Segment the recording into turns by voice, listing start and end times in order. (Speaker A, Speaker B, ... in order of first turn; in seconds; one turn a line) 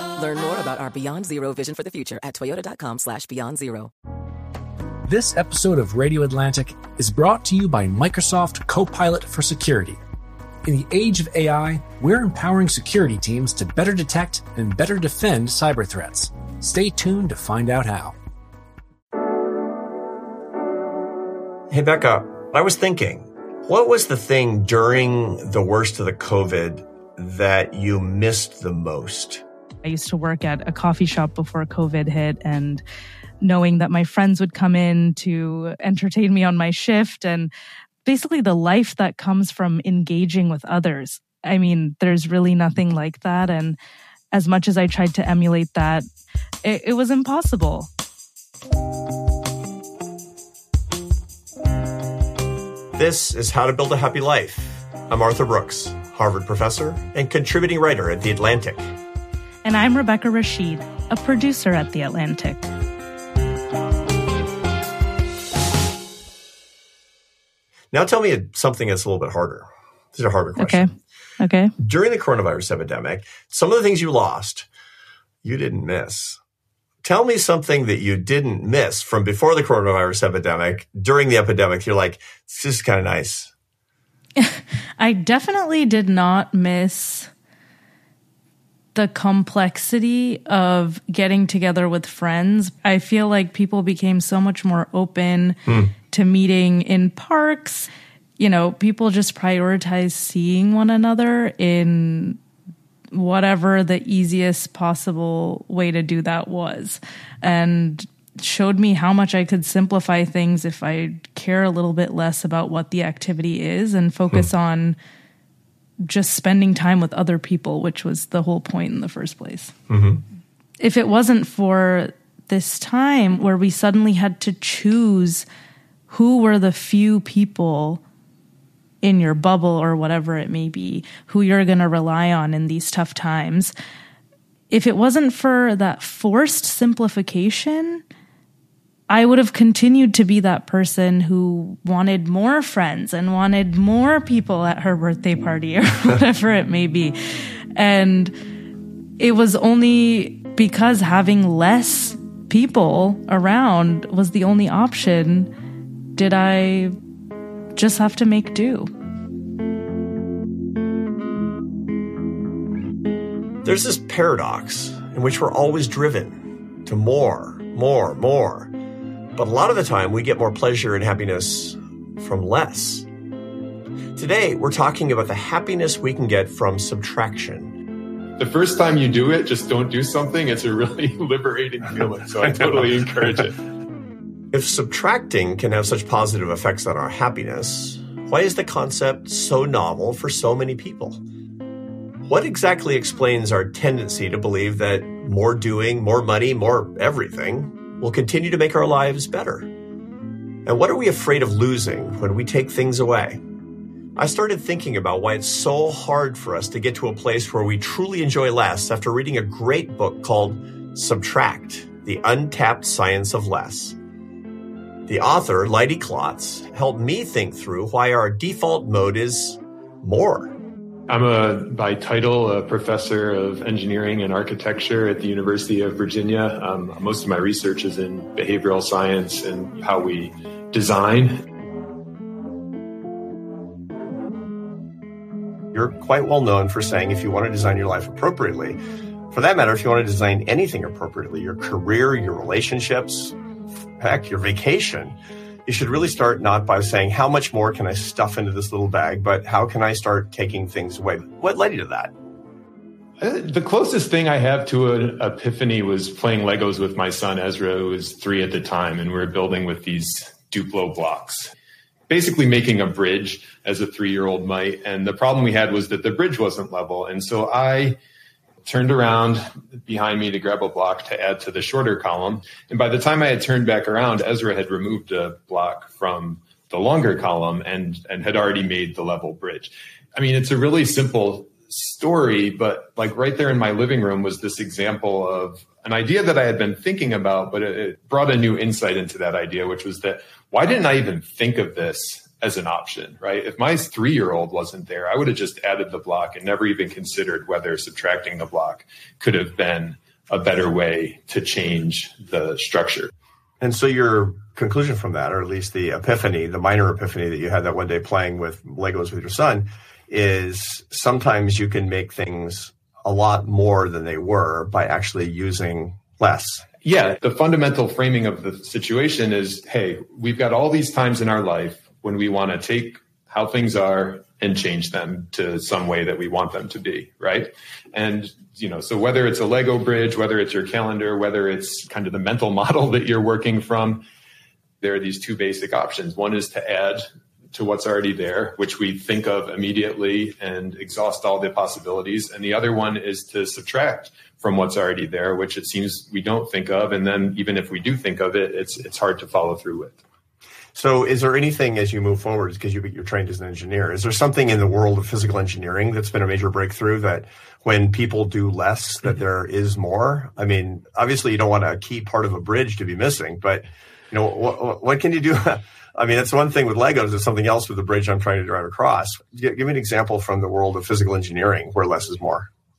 Speaker A: 0.2-3.9
Speaker B: 5.0-10.0
Speaker B: 10.6-18.2
Speaker C: 21.7-29.4
Speaker D: 29.8-32.8
Speaker D: 33.4-37.5
Speaker D: 38.0-43.8
Speaker D: 44.3-46.0
Speaker D: 46.6-47.9
Speaker C: 52.9-58.8
Speaker D: 59.6-62.7
Speaker C: 67.9-70.9
Speaker D: 70.6-70.9
Speaker D: 71.4-71.7
Speaker C: 71.8-74.7
Speaker C: 75.4-76.4
Speaker C: 77.0-83.5
Speaker D: 84.4-87.3
Speaker D: 88.9-102.4
Speaker C: 95.7-95.9
Speaker D: 103.1-115.0
Speaker D: 116.0-119.7
Speaker C: 119.9-120.2
Speaker D: 120.8-125.5
Speaker D: 126.1-128.0
Speaker D: 129.0-133.7
Speaker D: 134.7-138.0
Speaker D: 139.1-147.1
Speaker D: 147.8-148.3
Speaker D: 149.2-155.5
Speaker D: 156.1-156.9
Speaker D: 157.7-158.9
Speaker C: 163.6-168.7
Speaker C: 169.3-173.1
Speaker C: 174.2-177.8
Speaker E: 178.4-183.6
Speaker C: 184.5-191.2
Speaker C: 192.3-199.7
Speaker C: 200.6-203.4
Speaker C: 204.2-214.0
Speaker C: 215.1-220.5
Speaker E: 221.1-231.4
Speaker C: 235.7-238.8
Speaker C: 239.3-243.3
Speaker C: 244.0-252.1
Speaker E: 253.2-261.5
Speaker E: 262.1-268.0
Speaker E: 268.6-303.1
Speaker C: 303.6-316.6
Speaker E: 316.8-334.0
Speaker E: 334.8-350.0
Speaker C: 350.7-372.5